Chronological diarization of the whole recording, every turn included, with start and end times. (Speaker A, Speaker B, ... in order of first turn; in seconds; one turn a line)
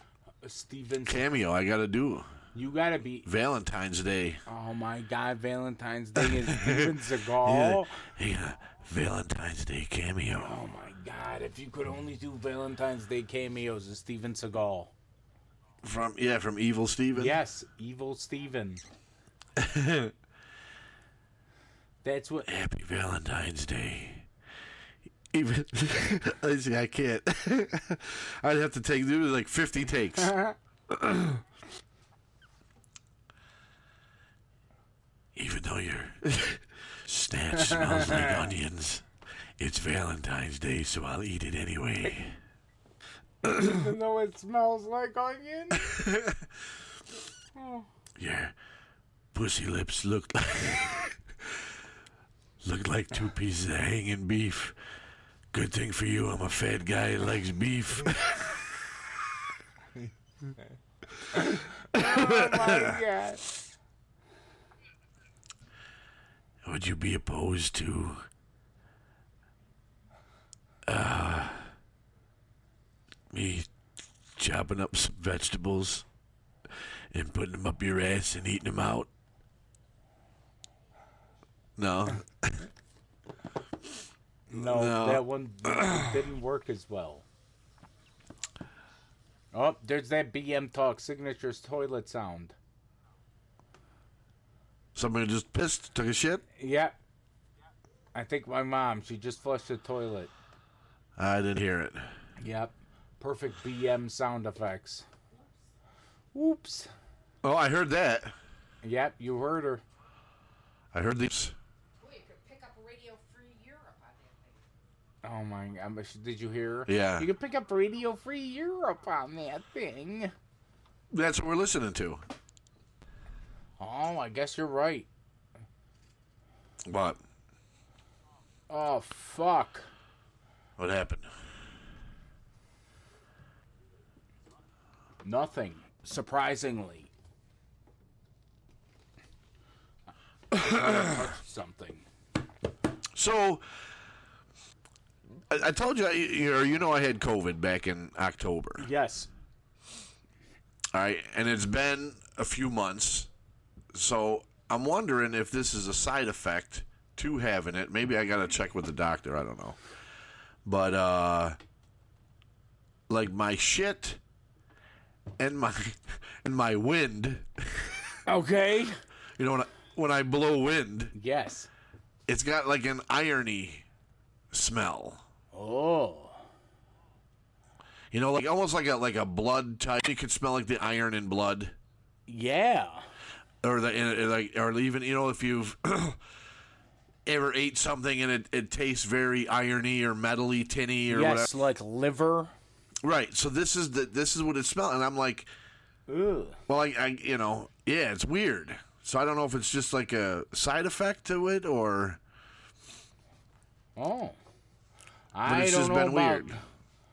Speaker A: 0.4-1.2
Speaker B: 1.1-2.3
Speaker A: 2.5-3.2
Speaker B: 3.2-4.4
Speaker A: 4.5-8.0
Speaker B: 6.2-10.5
Speaker A: 10.3-14.9
Speaker B: 15.8-17.4
Speaker A: 17.1-18.8
Speaker B: 19.6-20.1
Speaker A: 22.0-22.5
Speaker B: 22.5-24.3
Speaker B: 25.3-30.4
Speaker B: 30.9-31.4
Speaker B: 35.3-39.0
Speaker A: 37.6-38.4
Speaker B: 39.6-42.4
Speaker A: 43.4-46.0
Speaker B: 45.8-46.4
Speaker A: 47.5-47.9
Speaker B: 48.2-48.5
Speaker B: 49.3-51.6
Speaker B: 52.6-54.8
Speaker B: 55.5-59.3
Speaker A: 61.3-63.5
Speaker B: 61.9-63.0
Speaker B: 66.6-68.2
Speaker B: 70.8-71.7
Speaker B: 73.3-73.7
Speaker B: 74.3-76.0
Speaker B: 77.1-79.1
Speaker B: 81.8-82.7
Speaker A: 84.5-87.2
Speaker B: 84.5-86.1
Speaker A: 89.5-92.5
Speaker B: 94.9-96.4
Speaker A: 96.5-97.0
Speaker A: 98.1-100.3
Speaker B: 101.2-102.1
Speaker A: 102.4-105.1
Speaker A: 106.3-106.9
Speaker B: 107.4-108.3
Speaker A: 108.8-109.8
Speaker B: 110.9-111.5
Speaker C: 112.0-114.6
Speaker A: 115.2-120.3
Speaker B: 116.9-117.3
Speaker B: 121.1-122.2
Speaker A: 123.8-125.1
Speaker B: 126.8-127.2
Speaker A: 128.7-129.9
Speaker B: 130.8-131.3
Speaker A: 135.2-137.1
Speaker A: 140.5-142.1
Speaker B: 140.7-141.0
Speaker B: 143.1-143.6
Speaker B: 145.5-148.9
Speaker A: 148.8-149.3
Speaker B: 150.9-153.3
Speaker B: 153.9-159.8
Speaker B: 160.7-161.6
Speaker B: 163.1-164.2
Speaker B: 165.4-168.2
Speaker A: 168.2-169.0
Speaker B: 169.4-171.1
Speaker A: 171.1-171.7
Speaker B: 172.3-173.8
Speaker B: 174.5-175.2
Speaker A: 175.5-176.4
Speaker B: 178.1-181.7
Speaker A: 182.3-183.1
Speaker B: 183.6-186.2
Speaker B: 187.2-191.5
Speaker A: 191.1-192.5
Speaker B: 193.0-195.5
Speaker A: 196.1-196.6
Speaker B: 196.7-202.2
Speaker A: 203.9-204.4
Speaker A: 205.3-206.6
Speaker B: 205.4-206.5